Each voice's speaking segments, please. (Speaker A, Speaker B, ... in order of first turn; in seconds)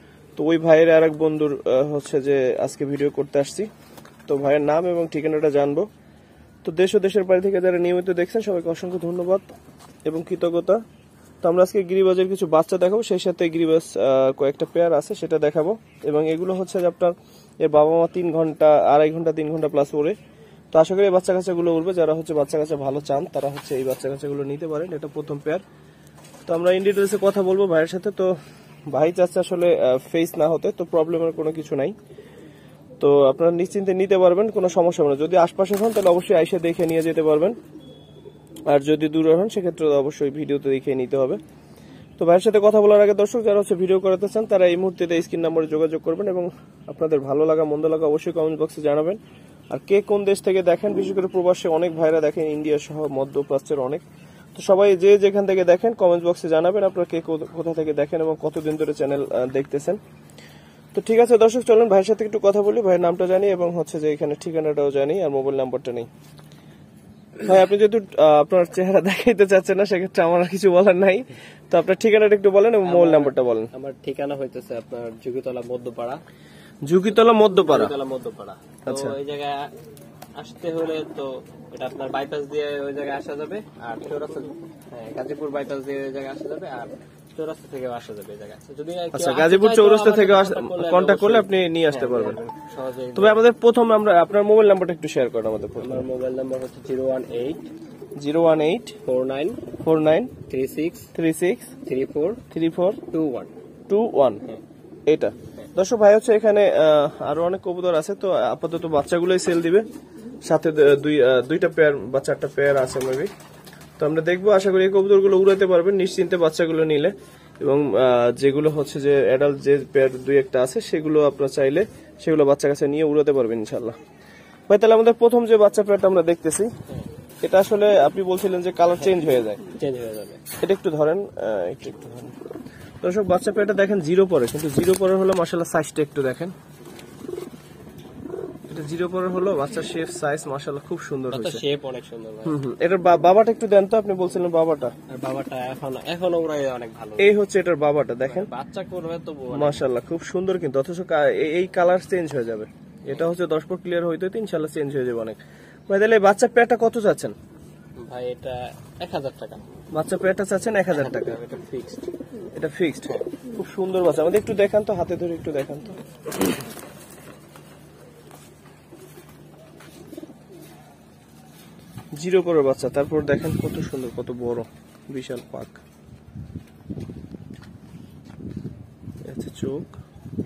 Speaker A: 0.4-3.7, 4.3-5.9, 6.6-9.4, 10.1-10.8, 11.4-20.1, 20.7-25.6, 26.5-28.3, 28.9-31.9, 33.0-37.5, 38.7-41.4, 42.2-49.2, 49.7-54.0, 54.5-60.0, 60.9-66.1, 67.4-73.7, 76.8-77.9, 78.9-79.2, 89.1-92.4, 93.1-96.1, 98.2-99.0, 99.8-100.3, 101.1-101.7, 102.5-103.0, 103.9-104.4, 105.1-109.8, 110.5-113.3, 114.0-124.0, 124.7-126.7, 127.4-129.6, 130.6-132.3, 133.0-136.5, 138.7-141.6, 142.4-144.9, 147.2-148.5, 149.5-157.3, 159.9-161.4, 162.5-166.0, 172.2-175.8, 179.2-179.9
Speaker B: 72.8-76.2, 77.5-79.7, 80.4-93.4, 95.8-97.7, 99.0-99.6, 100.5-101.1, 101.8-102.4, 103.1-103.5, 128.9-130.4, 141.3-142.6, 145.1-147.3, 148.2-149.8, 153.0-153.3, 158.0-159.6, 160.9-162.1